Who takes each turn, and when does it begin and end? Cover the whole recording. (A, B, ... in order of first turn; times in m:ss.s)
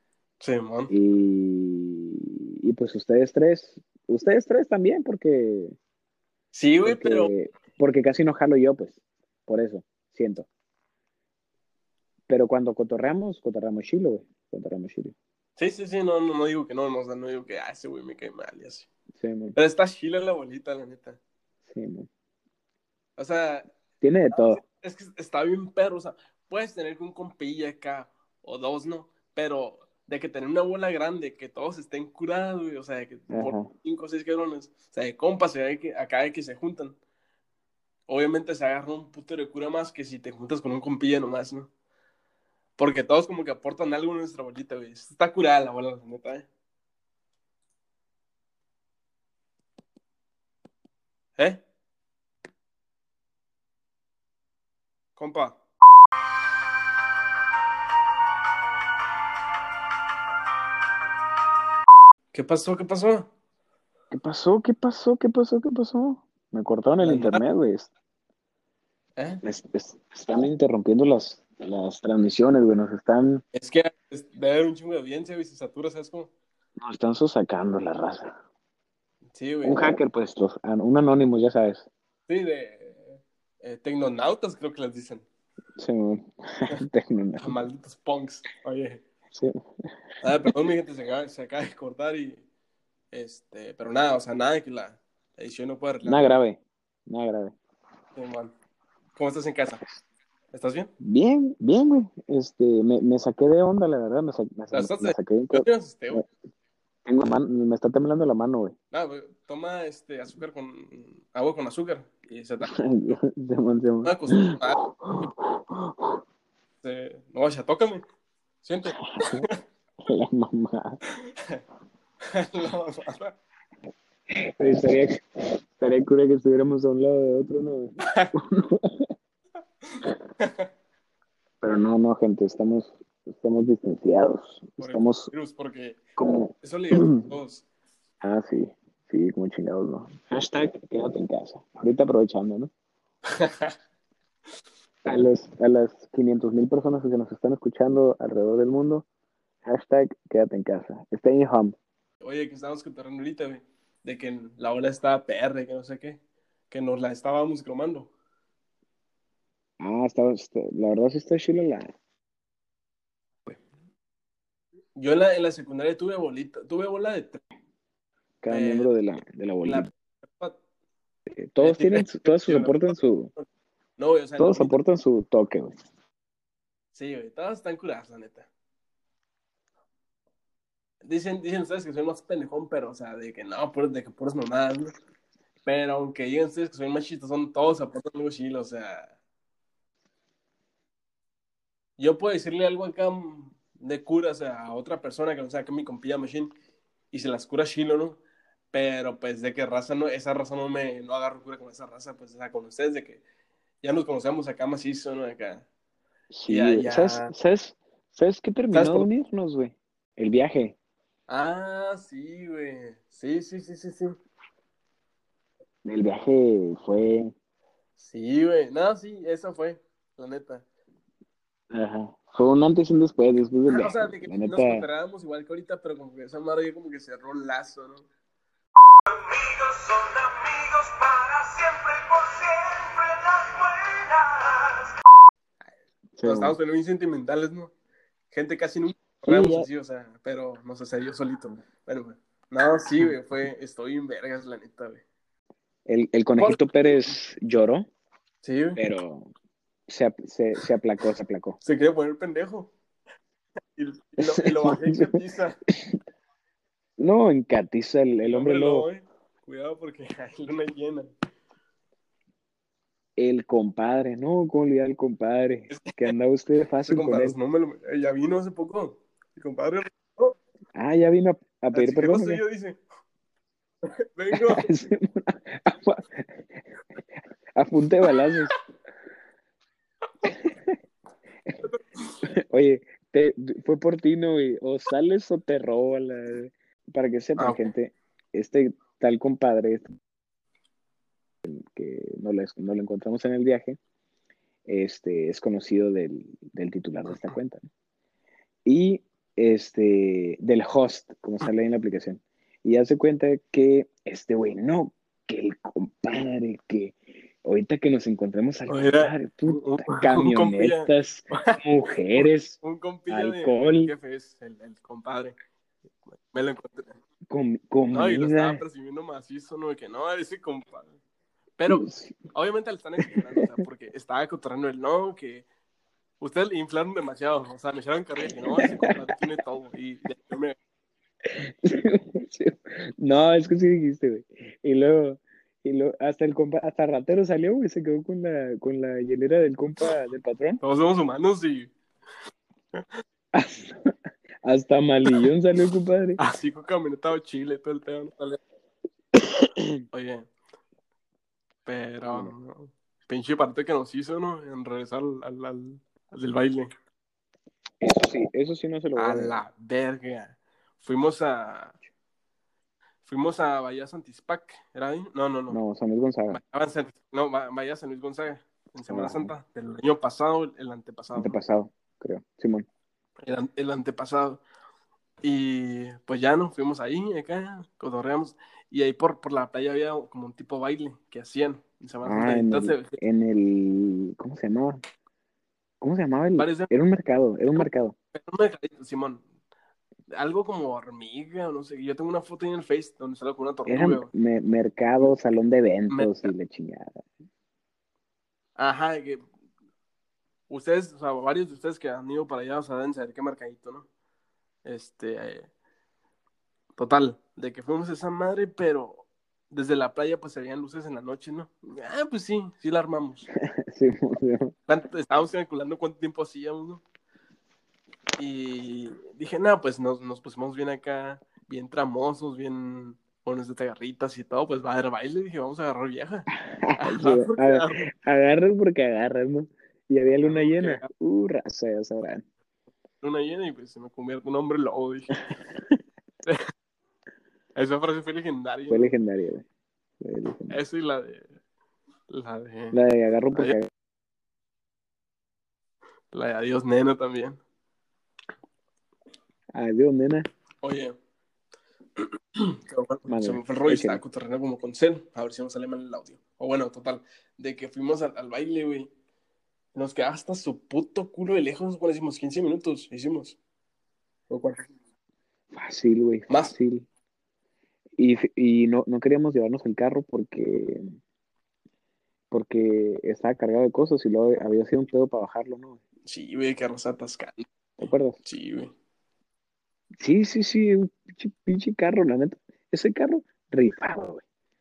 0:00.4-0:00.9 A
0:00.9-0:05.8 B
0:06.5-0:07.3 A
0:06.8-0:10.5 B
0:12.3-0:15.2 B
0:15.6-0:18.9 A
0:19.2-0:19.6 B
0:19.6-0:21.2 A
0:21.7-0:22.1 B
0:23.2-0:23.7 A
0:24.0-0:24.6 B
0:24.3-0:37.0 A
0:33.3-0:33.7 B
0:38.1-0:41.7 A
0:42.8-0:46.5 A
0:55.2-0:55.6 A
1:02.3-1:03.3 A
1:04.1-1:07.9 B
1:07.0-1:07.4 A
1:09.2-1:09.4 A
1:09.4-1:13.4 B
1:13.5-1:16.3 A
1:16.8-1:18.3 B
1:19.3-1:20.0 A
1:19.6-1:21.9 B
1:22.3-1:25.2 A
1:25.8-1:27.6 B
1:27.4-1:29.0 A
1:30.2-1:32.4 A
1:33.1-1:36.3 A
1:36.0-1:37.6 B
1:38.2-1:38.5 A
1:39.2-1:39.8 A
1:40.5-1:40.9 A
1:41.0-1:46.2 B
1:44.7-1:46.2 A
1:47.1-1:48.8 B
1:48.9-1:53.2 A
1:52.6-1:56.2 B
1:54.0-1:54.8 A
1:56.8-1:58.0 A
1:58.6-1:59.6 A
1:59.2-1:59.5 B
2:00.0-2:01.0 B
2:02.3-2:03.4 A
2:04.4-2:09.1 B
2:08.0-2:08.3 A
2:10.4-2:10.7 A
2:11.6-2:15.3 B
2:14.8-2:16.0 A
2:16.2-2:17.2 B
2:16.6-2:17.6 A
2:18.2-2:22.7 B
2:23.4-2:23.7 A
2:25.0-2:29.1 B
2:29.7-2:31.8 B
2:32.2-2:36.2 A
2:36.7-2:38.1 A
2:39.8-2:41.9 B
2:45.0-2:47.4 A
2:48.4-2:49.9 B
2:48.5-2:48.9 A
2:49.6-2:50.6 A
2:51.3-2:53.3 B
2:51.6-2:53.4 A
2:54.0-2:54.8 A
2:54.4-2:55.8 B
2:57.0-2:58.5 A
3:01.0-3:04.9 A
3:05.7-3:09.1 A
3:12.0-3:16.5 A
3:17.1-3:18.2 A
3:18.7-3:23.2 A
3:23.8-3:25.6 A
3:26.3-3:30.8 B
3:26.5-3:27.3 A
3:28.7-3:29.1 A
3:31.3-3:34.2 A
3:35.8-3:37.3 B
3:38.0-3:40.6 A
3:41.7-3:44.9 B
3:43.7-3:48.1 A
3:49.2-3:54.9 C
3:56.2-3:56.6 B
3:56.2-3:57.7 A
3:58.3-4:05.0 A
3:59.3-3:59.7 B
4:05.9-4:07.9 B
4:06.4-4:06.7 A
4:08.4-4:08.8 A
4:08.8-4:09.3 B
4:09.9-4:11.6 B
4:11.6-4:12.7 A
4:13.8-4:15.6 A
4:14.2-4:16.0 B
4:17.0-4:18.9 B
4:18.2-4:21.1 A
4:23.2-4:27.4 B
4:25.7-4:26.1 A
4:26.9-4:30.4 A
4:30.7-4:32.4 B
4:31.7-4:32.8 A
4:34.2-4:34.6 A
4:34.4-4:36.3 B
4:37.6-4:38.5 B
4:40.2-4:40.8 B
4:41.6-4:42.1 A
4:42.4-4:50.0 B
4:47.4-4:47.7 A
4:51.4-4:53.8 B
4:54.7-4:57.6 B
4:58.6-5:13.9 B
5:08.7-5:11.6 A
5:12.1-5:15.4 A
5:16.1-5:17.0 A
5:17.3-5:18.6 B
5:17.9-5:21.0 A
5:21.6-5:25.4 A
5:21.7-5:22.2 B
5:23.0-5:23.6 B
5:26.2-5:30.6 A
5:28.3-5:29.1 B
5:31.3-5:40.6 B
5:40.6-5:41.7 A
5:43.3-5:46.2 B
5:46.2-5:48.4 A
5:49.9-5:50.3 A
5:51.7-5:56.7 A
5:52.1-5:52.3 B
5:57.8-5:59.4 B
5:59.0-6:01.8 A
6:03.0-6:05.6 A
6:05.5-6:06.4 B
6:06.3-6:11.4 A
6:08.9-6:09.3 B
6:11.1-6:12.7 B
6:13.2-6:14.4 A
6:15.2-6:23.0 A
6:22.0-6:24.8 B
6:25.8-6:28.0 B
6:26.4-6:26.7 A
6:27.6-6:29.2 A
6:30.1-6:34.1 A
6:33.7-6:37.0 B
6:35.9-6:36.3 A
6:38.6-6:39.2 A
6:40.5-6:43.9 A
6:44.7-6:45.5 A
6:46.8-6:53.3 A
6:53.4-6:54.5 B
6:54.7-6:56.8 A
6:58.2-7:07.8 A
7:06.5-7:12.2 B
7:10.2-7:10.9 A
7:13.0-7:15.2 A
7:17.6-7:19.0 A
7:18.7-7:19.4 B
7:20.0-7:20.6 B
7:20.5-7:21.3 A
7:22.1-7:22.8 A
7:22.7-7:23.7 B
7:26.1-7:27.4 A
7:29.5-7:30.3 B
7:30.6-7:31.0 A
7:32.0-7:38.9 A
7:33.1-7:34.0 B
7:39.8-7:43.4 A
7:44.3-7:44.7 A
7:45.5-7:46.9 B
7:46.3-7:46.5 A
7:48.0-7:50.9 B
7:52.3-7:55.8 B
7:56.1-7:58.7 A
7:57.8-7:58.2 B
8:00.0-8:04.2 B